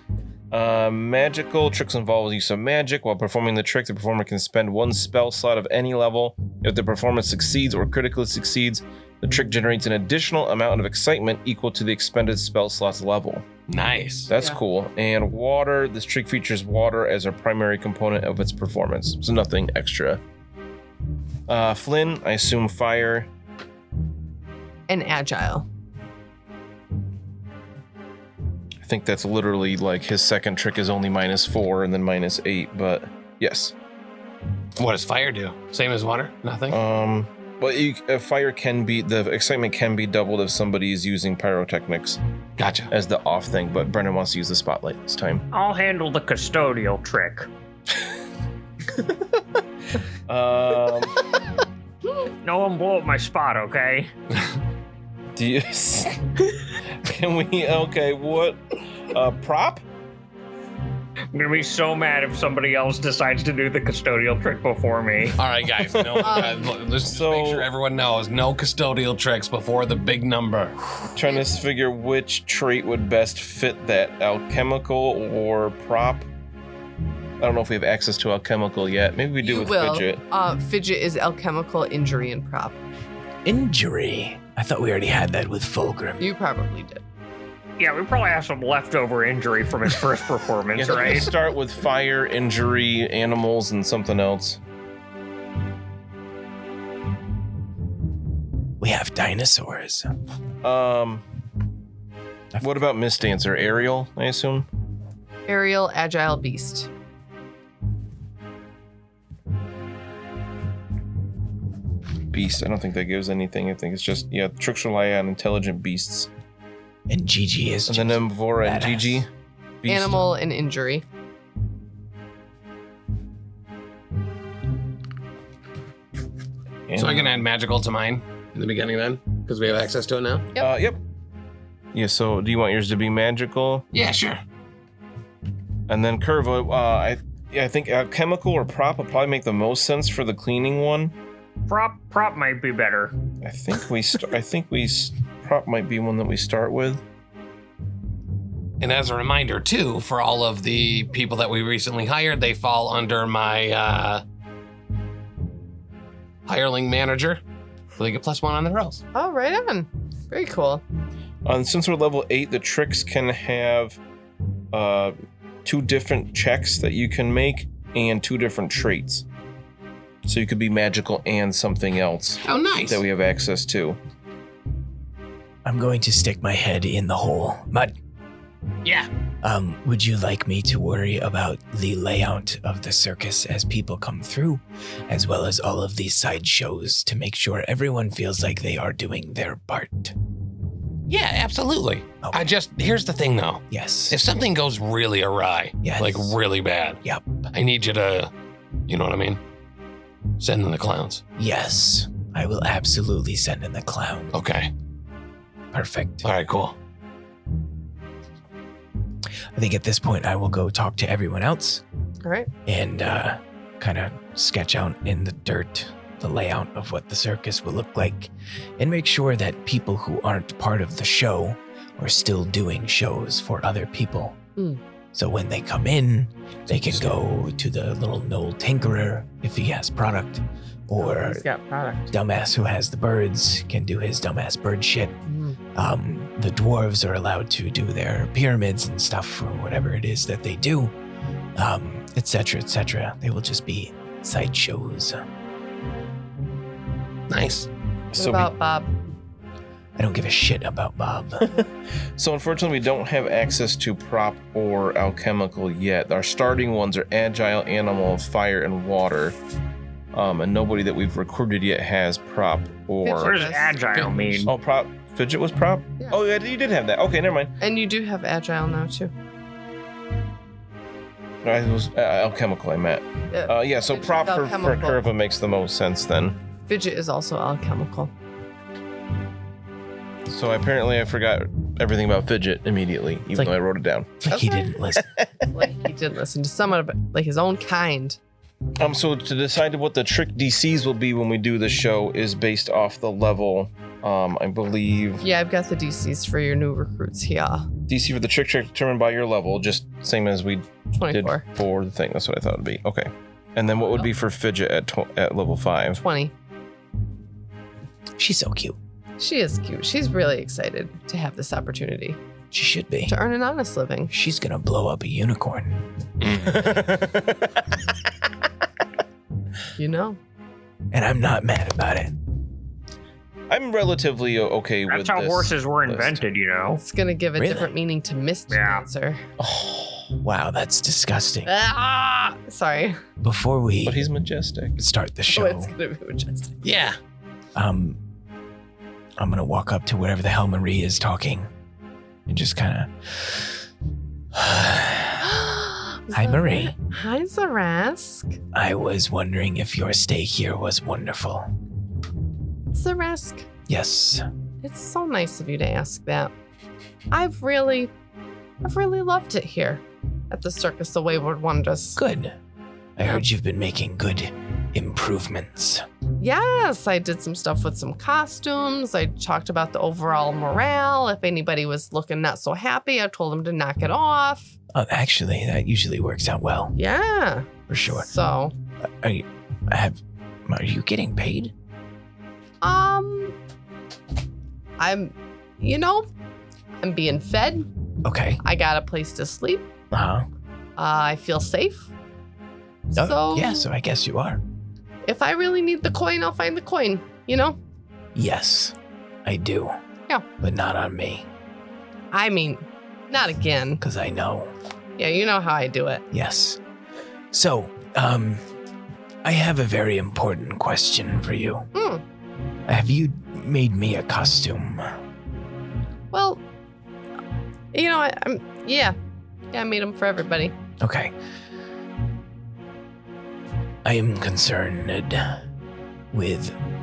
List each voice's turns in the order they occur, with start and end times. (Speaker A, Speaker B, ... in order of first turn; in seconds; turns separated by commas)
Speaker A: 0.5-13.5, Speaker B: 13.7-14.3, Speaker A: 14.3-20.2, Speaker A: 21.5-23.3, Speaker C: 24.9-25.7, Speaker A: 28.8-33.7, Speaker B: 34.8-36.8, Speaker A: 36.7-42.2, Speaker B: 42.6-42.9, Speaker A: 42.9-45.5, Speaker D: 45.5-47.5, Speaker A: 50.3-51.2, Speaker D: 52.4-54.1, Speaker A: 55.4-59.8, Speaker D: 61.3-65.4, Speaker B: 65.3-70.8, Speaker A: 65.9-67.7, Speaker C: 66.2-66.7, Speaker A: 71.1-76.3, Speaker A: 77.4-80.2, Speaker C: 79.4-82.8, Speaker E: 83.4-86.2, Speaker C: 86.2-87.0, Speaker D: 87.8-91.3, Speaker A: 90.7-94.6, Speaker E: 98.8-100.1, Speaker A: 100.6-101.2, Speaker E: 102.5-102.8, Speaker A: 102.6-104.7, Speaker C: 105.5-106.9, Speaker A: 112.3-116.3, Speaker E: 117.1-119.2, Speaker A: 117.9-119.3, Speaker A: 119.8-120.3, Speaker C: 119.8-121.0, Speaker A: 126.9-127.4, Speaker B: 126.9-130.5, Speaker A: 130.6-131.0, Speaker A: 131.9-133.8, Speaker B: 133.9-134.4, Speaker A: 135.9-141.1, Speaker D: 141.7-143.2, Speaker A: 143.4-147.0, Speaker B: 148.8-154.2, Speaker B: 156.4-157.4, Speaker B: 157.9-159.0, Speaker C: 159.1-160.8, Speaker A: 161.4-164.0, Speaker A: 164.7-169.2, Speaker A: 170.2-174.0, Speaker B: 172.4-173.0, Speaker E: 175.6-177.9, Speaker B: 178.8-179.1, Speaker E: 179.4-190.1, Speaker B: 191.1-197.0, Speaker E: 192.2-192.5, Speaker E: 193.7-194.2, Speaker E: 195.8-196.4, Speaker E: 197.0-197.4, Speaker B: 197.5-198.3, Speaker B: 198.9-199.4, Speaker B: 200.4-201.2, Speaker E: 201.3-204.3, Speaker B: 204.3-204.7, Speaker E: 205.7-206.3, Speaker B: 206.2-206.7, Speaker E: 209.5-211.8, Speaker C: 212.2-212.5, Speaker E: 212.7-224.4, Speaker E: 225.1-231.4, Speaker C: 231.0-232.1, Speaker E: 232.1-235.1, Speaker C: 235.2-235.6, Speaker E: 235.7-240.9, Speaker E: 241.6-245.2, Speaker B: 247.3-247.7, Speaker A: 248.1-248.5, Speaker C: 248.1-248.9, Speaker E: 249.9-251.6, Speaker A: 252.2-259.4, Speaker A: 260.1-263.4, Speaker C: 263.0-263.8, Speaker D: 263.2-264.5, Speaker B: 263.9-264.5, Speaker A: 264.5-267.5, Speaker C: 267.6-269.1, Speaker A: 271.4-276.4, Speaker C: 273.3-275.0, Speaker C: 276.7-278.1, Speaker A: 280.3-284.3, Speaker E: 284.2-285.1, Speaker C: 284.3-284.7, Speaker A: 285.0-285.2, Speaker C: 285.5-288.2, Speaker A: 288.8-295.2, Speaker C: 295.2-297.7, Speaker A: 297.9-306.0, Speaker C: 300.9-301.4, Speaker C: 306.0-306.3, Speaker E: 308.2-308.8, Speaker C: 309.2-312.2, Speaker E: 312.5-313.2, Speaker C: 313.1-314.1, Speaker E: 314.1-315.9, Speaker B: 316.2-316.7, Speaker A: 316.3-317.6, Speaker C: 319.8-320.2, Speaker E: 320.9-322.1, Speaker A: 323.5-326.3, Speaker D: 324.9-326.8, Speaker C: 326.8-329.2, Speaker E: 327.4-327.7, Speaker D: 328.5-328.8, Speaker A: 329.4-330.1, Speaker E: 330.2-331.5, Speaker C: 331.4-333.0, Speaker E: 333.2-334.1, Speaker A: 333.8-334.8, Speaker E: 334.8-335.7, Speaker C: 335.3-336.6, Speaker B: 336.6-337.0, Speaker E: 337.5-338.0, Speaker E: 339.2-341.5, Speaker E: 342.3-343.6, Speaker E: 344.3-345.2, Speaker C: 345.2-348.4, Speaker E: 346.1-346.7, Speaker E: 348.5-351.5, Speaker C: 352.7-353.4, Speaker E: 353.7-354.3, Speaker C: 354.6-356.3, Speaker C: 357.1-357.9, Speaker C: 358.6-362.0, Speaker E: 361.9-362.4, Speaker E: 363.0-365.8, Speaker C: 366.2-374.6, Speaker E: 374.7-376.8, Speaker C: 376.7-378.5, Speaker E: 377.7-378.1, Speaker E: 378.8-381.5, Speaker C: 382.6-383.4, Speaker C: 384.8-386.1, Speaker C: 386.8-387.7, Speaker E: 388.0-388.4, Speaker C: 388.4-389.7, Speaker E: 389.9-390.3, Speaker C: 390.8-391.9, Speaker C: 392.9-393.7, Speaker E: 392.9-394.4, Speaker C: 395.0-397.6, Speaker E: 398.1-399.8, Speaker E: 400.4-401.2, Speaker C: 402.1-403.8, Speaker E: 403.8-404.5, Speaker C: 405.0-406.0, Speaker E: 406.1-406.6, Speaker E: 407.3-408.4, Speaker E: 409.2-411.7, Speaker C: 411.7-412.0, Speaker E: 412.6-414.9, Speaker C: 416.1-416.4, Speaker C: 417.7-418.9, Speaker C: 419.5-420.5, Speaker E: 420.8-421.1, Speaker E: 423.8-425.4, Speaker E: 426.1-426.6